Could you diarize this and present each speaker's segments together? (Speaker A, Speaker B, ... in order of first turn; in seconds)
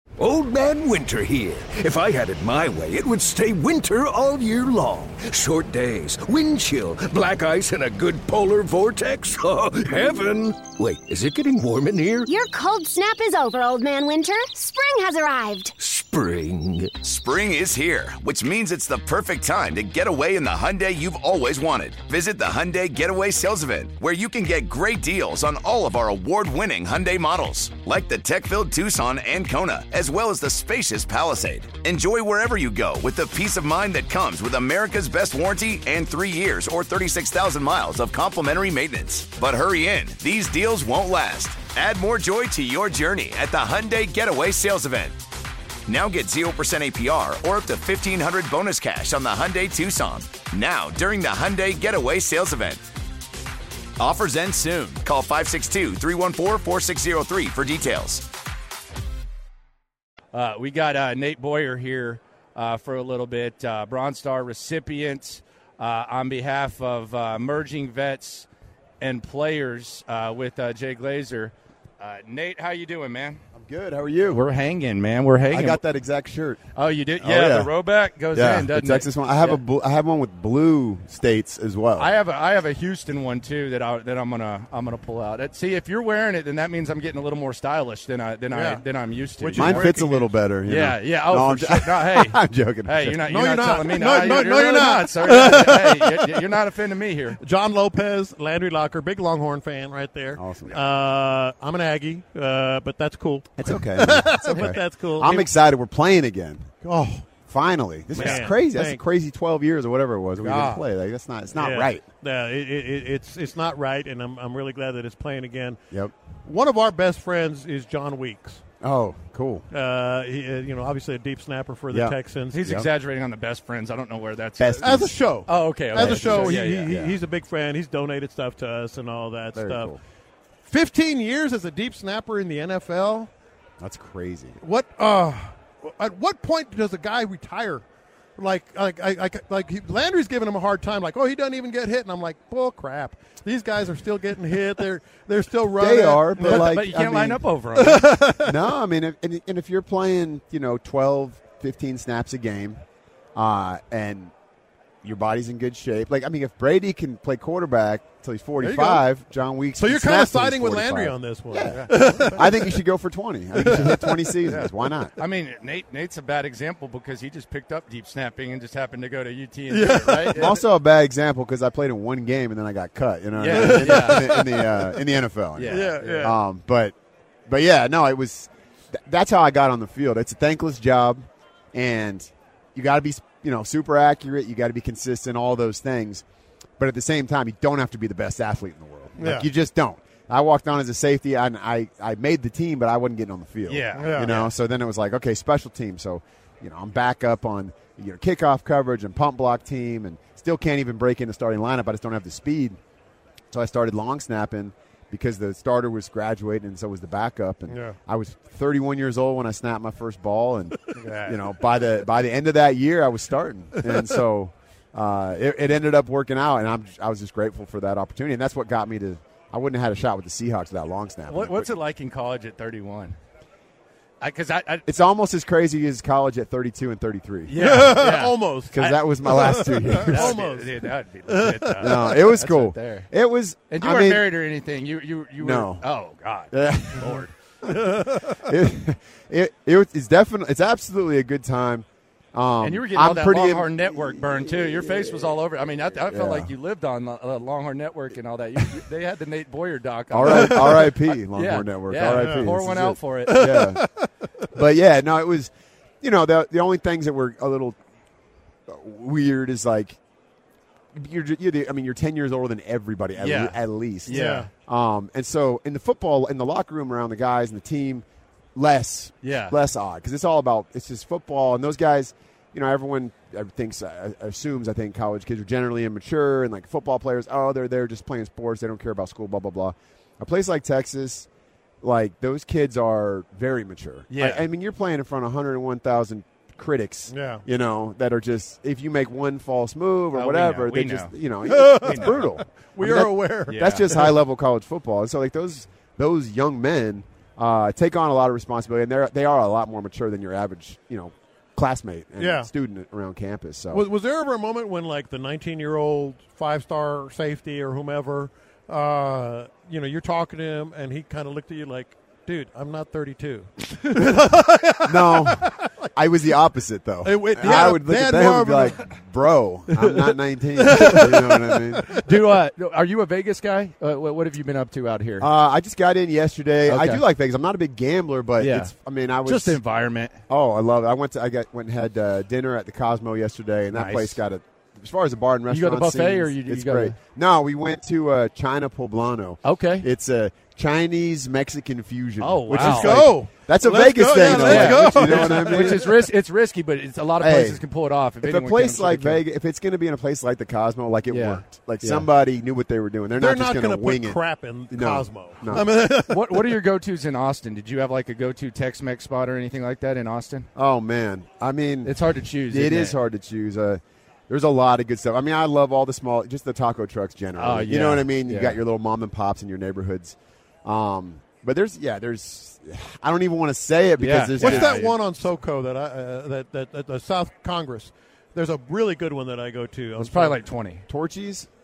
Speaker A: 0.2-12.3, 15.8-17.0
Speaker B: 12.2-15.7
Speaker C: 17.0-45.2, 45.9-52.9, 54.0-58.2
Speaker D: 60.3-68.5, 69.0-73.4, 74.3-75.8, 76.8-79.6, 82.0-89.9, 90.7-97.4, 108.2-108.5, 122.5-127.0, 146.4-148.2, 161.6-162.4, 164.4-170.6, 173.3-174.4, 175.6-176.3, 193.7-194.5, 211.0-211.3, 221.3-223.2, 224.2-224.9, 227.5-228.9, 230.0-233.1, 233.7-237.3, 242.6-253.6, 263.2-264.5, 269.2-269.6, 284.1-284.4, 290.1-291.1, 291.8-292.2, 293.5-293.9, 321.9-325.3, 326.6-327.0, 328.4-328.7, 329.2-330.2, 333.7-334.2, 335.5-336.9, 339.4-339.9, 342.2-343.1, 344.1-349.2, 351.1-352.1, 355.5-360.5, 361.8-363.0, 367.4-368.6, 374.0-375.0, 380.0-380.9
Speaker E: 73.5-74.4, 75.5-76.6, 77.2-77.7, 78.3-82.1, 89.5-93.2, 100.3-100.8, 103.6-106.7, 107.4-112.0, 118.8-119.7, 121.9-122.9, 124.6-125.2, 125.9-127.2, 129.5-130.0, 133.8-134.6, 145.7-147.4, 148.4-152.8, 153.3-154.3, 155.0-165.1, 170.3-176.9, 177.5-186.2, 186.8-202.8, 203.5-221.7, 224.8-228.0, 228.7-230.4, 231.7-234.3, 235.4-235.8, 236.5-245.4, 245.9-246.5, 250.1-253.9, 254.5-257.8, 258.7-260.0, 260.9-281.3, 281.8-303.9, 314.8-322.0, 325.2-329.6, 330.3-345.9, 347.2-347.6, 348.2-355.7, 360.5-374.8, 380.9-381.5
Speaker F: 88.5-88.8, 89.4-90.3, 93.2-96.4, 97.4-105.5, 106.8-107.3, 108.1-109.0, 110.5-110.8, 111.5-115.8, 116.4-118.6, 119.7-122.8, 124.8-129.9, 130.6-133.3, 134.6-137.8, 138.4-146.7, 147.8-148.6, 158.6-159.0, 159.8-162.8, 163.6-164.4, 169.7-170.6, 173.5-175.0, 175.7-176.3, 189.2-189.5, 193.9-194.3, 207.7-208.0, 227.5-232.2, 237.0-238.5, 250.3-250.7, 252.1-252.5, 253.2-254.1, 264.1-264.5, 287.1-287.4, 291.4-294.1, 302.2-302.5, 303.7-315.7, 317.0-318.8, 320.6-321.9, 342.5-346.1, 353.2-356.6, 374.4-380.4